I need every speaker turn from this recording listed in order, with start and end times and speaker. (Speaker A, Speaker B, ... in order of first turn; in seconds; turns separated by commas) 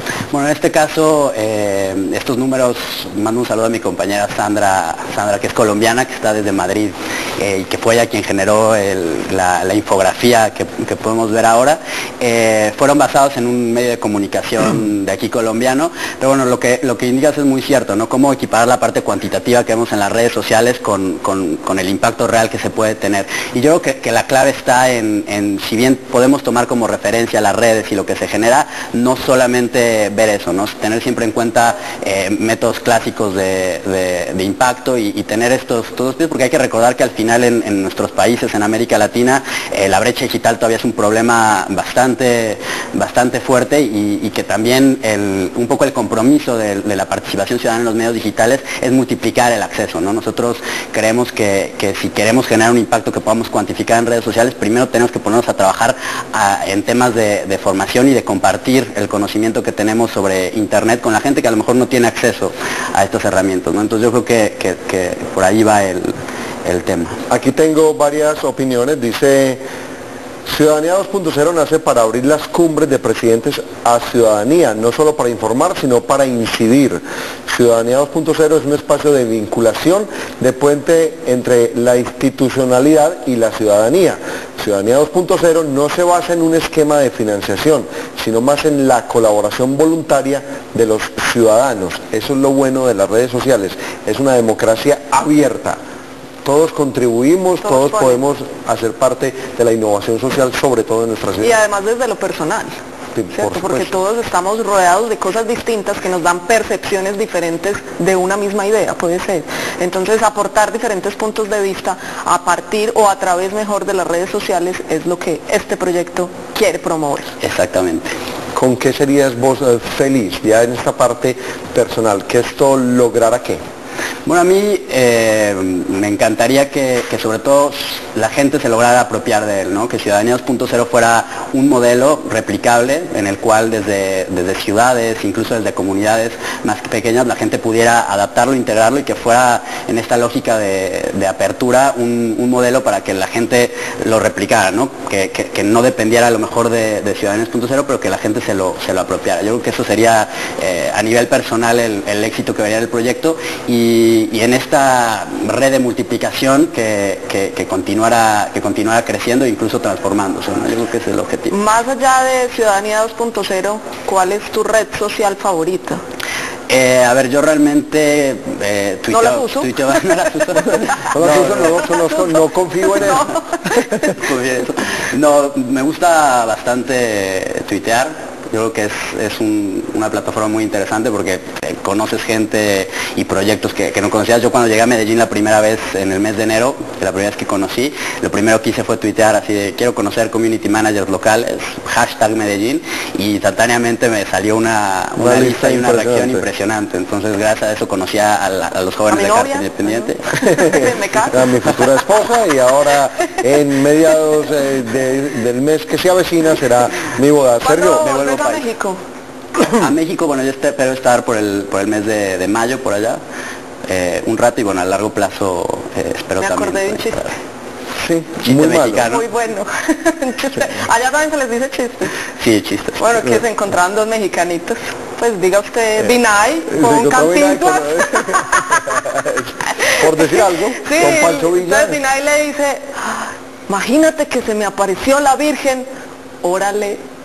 Speaker A: 0.3-67.2, Speaker B: 67.3-69.6, Speaker B: 70.5-95.8, Speaker B: 96.4-101.5, Speaker C: 97.6-98.2, Speaker C: 101.4-102.7, Speaker B: 103.1-104.0, Speaker C: 103.3-117.3, Speaker A: 117.4-118.1, Speaker B: 118.5-123.6, Speaker A: 124.2-161.6, Speaker C: 161.5-166.0, Speaker A: 166.7-171.8, Speaker C: 169.1-170.0, Speaker C: 170.7-171.0, Speaker B: 171.1-173.2, Speaker C: 171.7-174.1, Speaker A: 174.1-200.5, Speaker B: 195.2-196.4, Speaker C: 199.1-201.8, Speaker B: 200.6-208.1, Speaker C: 207.6-209.0, Speaker A: 208.0-208.6, Speaker A: 209.7-213.2, Speaker A: 213.9-217.3, Speaker C: 216.4-217.2, Speaker B: 218.0-219.1, Speaker A: 218.4-219.3, Speaker C: 219.0-222.1, Speaker A: 222.4-223.3, Speaker C: 223.0-229.0, Speaker B: 226.7-232.0, Speaker C: 229.8-235.9, Speaker C: 236.4-237.0